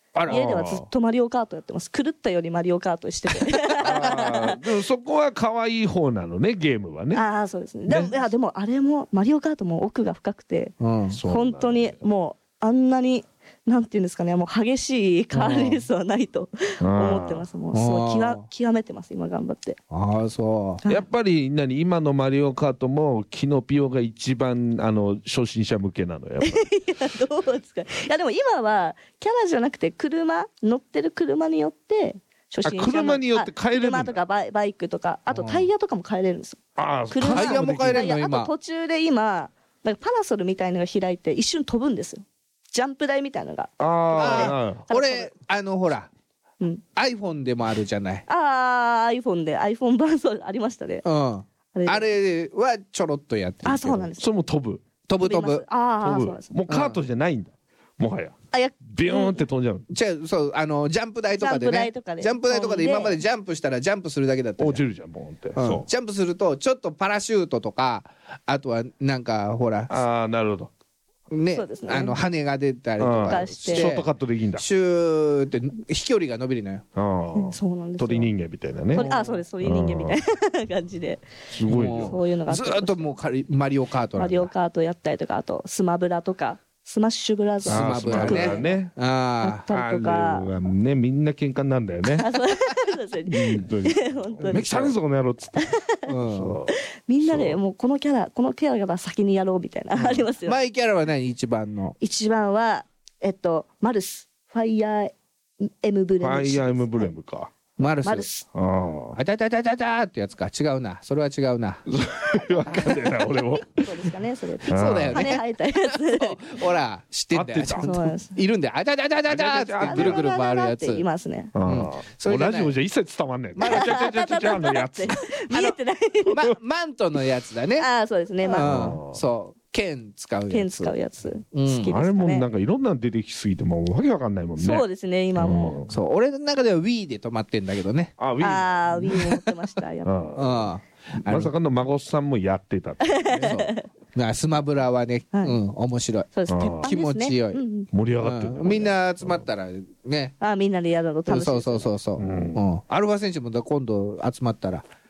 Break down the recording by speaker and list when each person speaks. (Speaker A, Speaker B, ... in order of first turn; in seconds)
Speaker A: 0.1-0.4, 10.8-11.2, 15.3-15.8, 17.7-18.5, 19.9-20.8, 35.3-35.7, 37.2-38.5, 44.1-46.1, 47.0-48.2, 51.0-54.1, 55.1-55.6, 56.7-57.0, 59.9-64.8, 65.5-69.9, 71.3-76.8, 78.9-79.4, 81.7-84.5, 87.6-89.7, 94.4-94.9, 96.1-96.6, 100.0-101.9, 107.8-108.3, 109.1-111.8, 114.6-121.0, 121.6-122.7, 125.5-127.9, 128.4-131.0, 131.5-131.9, 135.9-138.1, 140.3-141.5, 143.4-147.6, 148.2-150.3, 151.3-154.8
Speaker B: 0.2-0.9, 3.8-7.2, 7.9-8.1, 11.1-12.0, 16.8-17.5, 20.9-26.7, 32.6-34.2, 36.8-38.1, 43.8-44.9, 54.2-54.8, 56.0-59.9, 64.6-65.8, 69.9-70.7, 73.0-74.6, 77.0-79.1, 79.6-80.2, 81.5-82.2, 87.7-88.9, 89.7-92.3, 93.2-97.6, 106.2-107.5, 108.5-109.2, 111.9-114.1, 114.7-115.3, 117.3-118.0, 119.3-120.2, 121.5-125.3, 128.5-129.2, 131.8-135.9, 138.2-139.3, 140.0-140.7, 141.2-143.6, 146.5-146.9, 147.9-149.5, 152.2-152.6
Speaker C: 0.3-4.6, 7.1-10.7, 11.3-19.8, 26.4-36.6, 37.1-45.3, 48.3-51.0, 51.7-52.0, 53.6-54.2, 55.2-56.5, 58.5-59.4, 61.3-63.2, 71.5-72.2, 73.3-73.9, 77.3-78.3, 78.9-81.2, 81.9-83.0, 84.2-88.8, 89.4-90.5, 92.2-94.9, 95.6-96.0, 97.1-100.6, 102.0-107.1, 108.0-108.4, 112.9-116.4, 117.8-118.3, 119.8-121.5, 123.6-126.4, 127.8-128.7, 130.5-132.4, 134.6-135.8, 138.4-140.2, 143.0-143.8, 146.3-147.9, 150.4-151.9